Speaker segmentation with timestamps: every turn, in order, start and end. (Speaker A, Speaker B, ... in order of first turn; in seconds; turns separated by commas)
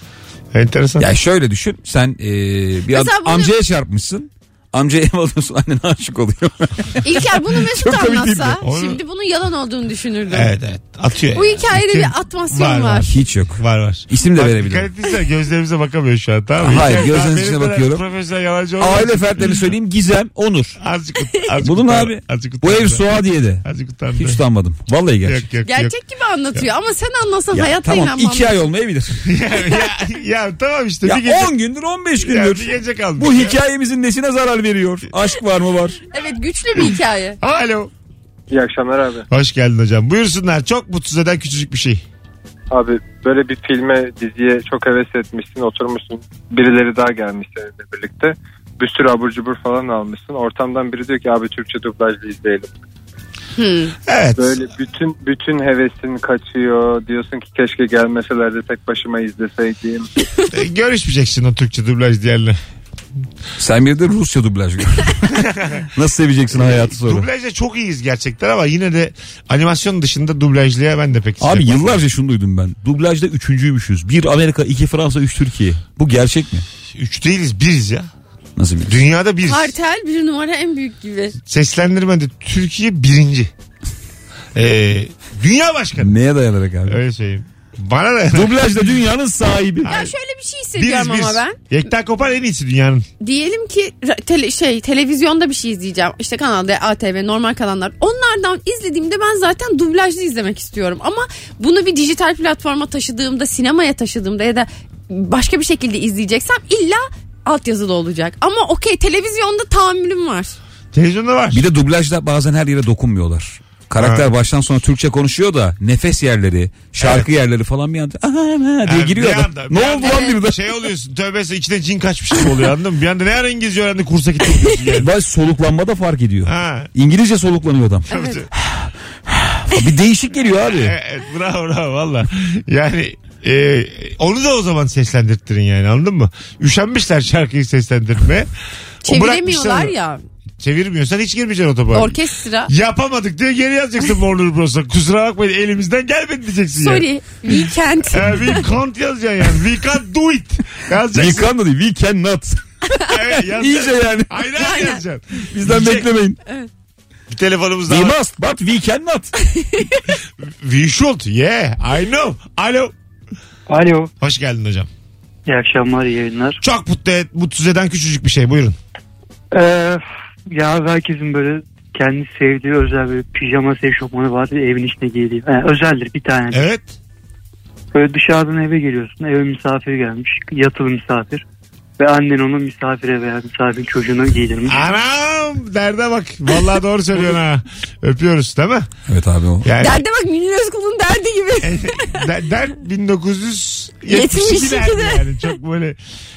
Speaker A: 0.5-1.1, Speaker B: 1.0-8.6, Speaker C: 2.9-3.5, Speaker C: 7.0-10.5, Speaker A: 8.6-9.0, Speaker A: 10.3-19.7, Speaker C: 11.3-13.1, Speaker B: 13.1-14.9, Speaker B: 16.6-18.0, Speaker B: 18.8-20.8, Speaker A: 20.8-23.1, Speaker B: 21.6-23.6, Speaker A: 23.6-24.4, Speaker B: 24.2-25.4, Speaker A: 25.2-25.9, Speaker C: 25.7-28.6, Speaker B: 27.5-29.2, Speaker A: 29.3-31.5, Speaker B: 31.1-36.0, Speaker A: 32.2-33.6, Speaker C: 36.1-37.4, Speaker A: 37.4-37.9, Speaker D: 38.5-39.3, Speaker A: 39.3-42.0, Speaker D: 42.7-52.7, Speaker C: 53.6-54.0, Speaker A: 54.1-54.6, Speaker D: 54.4-60.1, Speaker A: 60.5-62.6, Speaker B: 63.6-67.3, Speaker A: 65.3-65.8, Speaker A: 66.5-72.0, Speaker B: 71.4-76.7, Speaker A: 77.0-78.1, Speaker B: 78.6-79.0, Speaker A: 78.9-79.7, Speaker C: 79.5-81.3, Speaker A: 81.5-83.5, Speaker A: 84.5-86.2, Speaker B: 86.0-87.0, Speaker A: 86.9-88.6, Speaker B: 88.3-89.9, Speaker A: 89.8-90.1, Speaker C: 89.9-91.6, Speaker A: 90.8-93.1, Speaker C: 93.2-110.6, Speaker A: 110.9-111.6, Speaker B: 111.5-120.6, Speaker A: 114.0-114.3, Speaker A: 117.0-117.3, Speaker A: 118.8-125.1, Speaker C: 120.0-120.4, Speaker B: 125.0-130.9, Speaker A: 126.5-126.9, Speaker A: 128.1-128.5, Speaker C: 128.1-128.4, Speaker A: 130.7-138.5, Speaker C: 139.1-140.2, Speaker A: 139.1-139.9, Speaker A: 140.6-142.2, Speaker C: 141.9-142.7, Speaker A: 142.7-147.1, Speaker C: 146.8-148.6, Speaker A: 148.1-151.5, Speaker B: 151.1-152.6, Speaker A: 153.1-156.1, Speaker B: 153.5-154.3, Speaker C: 154.6-155.0, Speaker B: 155.5-156.4, Speaker A: 157.3-158.2, Speaker B: 157.9-159.3, Speaker C: 159.6-160.0, Speaker A: 160.6-162.9, Speaker E: 163.7-164.1, Speaker A: 164.2-164.9, Speaker E: 165.5-166.6, Speaker A: 166.6-168.8, Speaker E: 169.5-176.7, Speaker A: 176.5-176.9, Speaker E: 177.9-181.4, Speaker E: 182.0-184.8, Speaker A: 184.7-188.9, Speaker B: 189.1-189.7, Speaker A: 189.6-190.0, Speaker C: 189.8-192.3, Speaker A: 191.6-196.0, Speaker C: 194.1-195.5